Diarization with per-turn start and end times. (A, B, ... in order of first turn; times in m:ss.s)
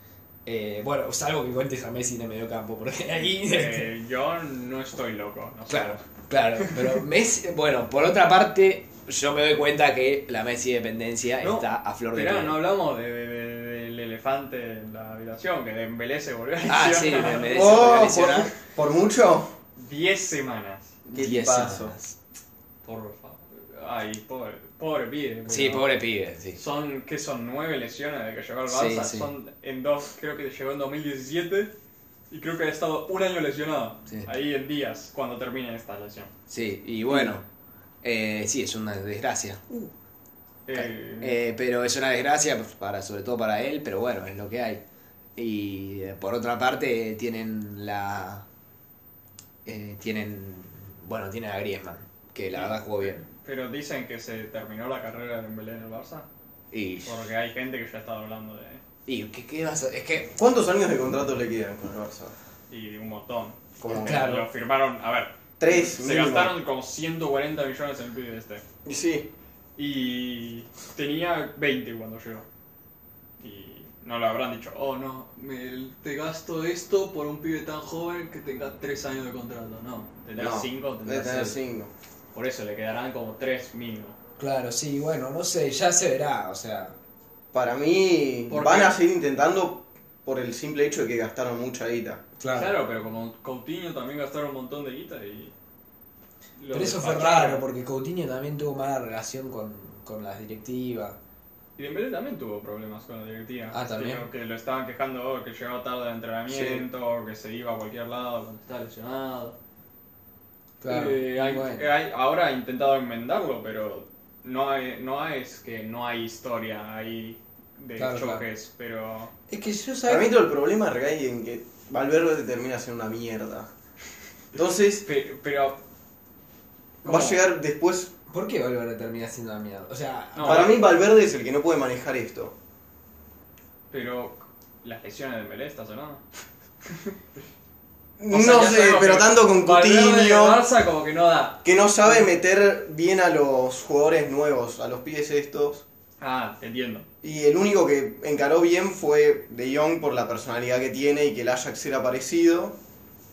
0:00.4-0:03.9 A
0:03.4-0:06.0 B
0:05.7-0:12.6 A
0:06.6-0:07.0 B
0:11.4-0:18.1 B
0:16.7-0:18.5 A
0:17.4-0:19.5 C
0:19.8-0:21.0 B
0:21.0-0:21.9 C
0:21.2-0:22.2 A
0:22.8-0:25.9 B
0:25.4-0:26.6 A
0:26.5-0:31.7 B
0:28.7-0:29.3 A
0:32.3-0:36.3 B
0:36.5-0:37.4 A
0:38.0-0:39.9 A
0:40.7-0:41.4 B
0:40.7-0:44.8 A
0:45.4-0:48.4 A
0:49.6-0:53.2 A
0:52.5-0:56.3 B
0:56.7-0:57.2 A
0:57.0-0:58.8 B
0:59.1-1:00.4 A
1:00.4-1:02.3 C
1:02.7-1:08.6 B
1:03.8-1:04.2 C
1:03.8-1:04.5 A
1:05.6-1:06.5 C
1:08.8-1:09.3 C
1:09.8-1:12.4 B
1:13.4-1:21.6 B
1:20.4-1:21.9 C
1:22.3-1:24.2 B
1:24.4-1:27.0 A
1:27.5-1:32.2 C
1:28.5-1:29.0 B
1:32.4-1:32.7 A
1:32.5-1:35.5 B
1:36.6-1:37.6 B
1:36.7-1:41.2 A
1:41.8-1:49.6 B
1:43.7-1:44.3 A
1:46.5-1:46.8 C
1:50.8-1:51.8 A
1:50.9-1:59.3 B
1:58.0-1:58.4 A
1:59.5-2:00.3 A
2:00.0-2:03.7 C
2:04.5-2:05.0 C
2:05.0-2:05.8 B
2:07.0-2:07.4 B
2:07.0-2:08.1 C
2:08.3-2:10.8 A
2:10.3-2:10.8 B
2:10.4-2:12.5 C
2:13.9-2:16.2 B
2:16.9-2:17.2 B
2:18.2-2:20.6 C
2:18.3-2:22.2 B
2:21.6-2:25.8 C
2:26.2-2:27.0 B
2:27.2-2:32.8 C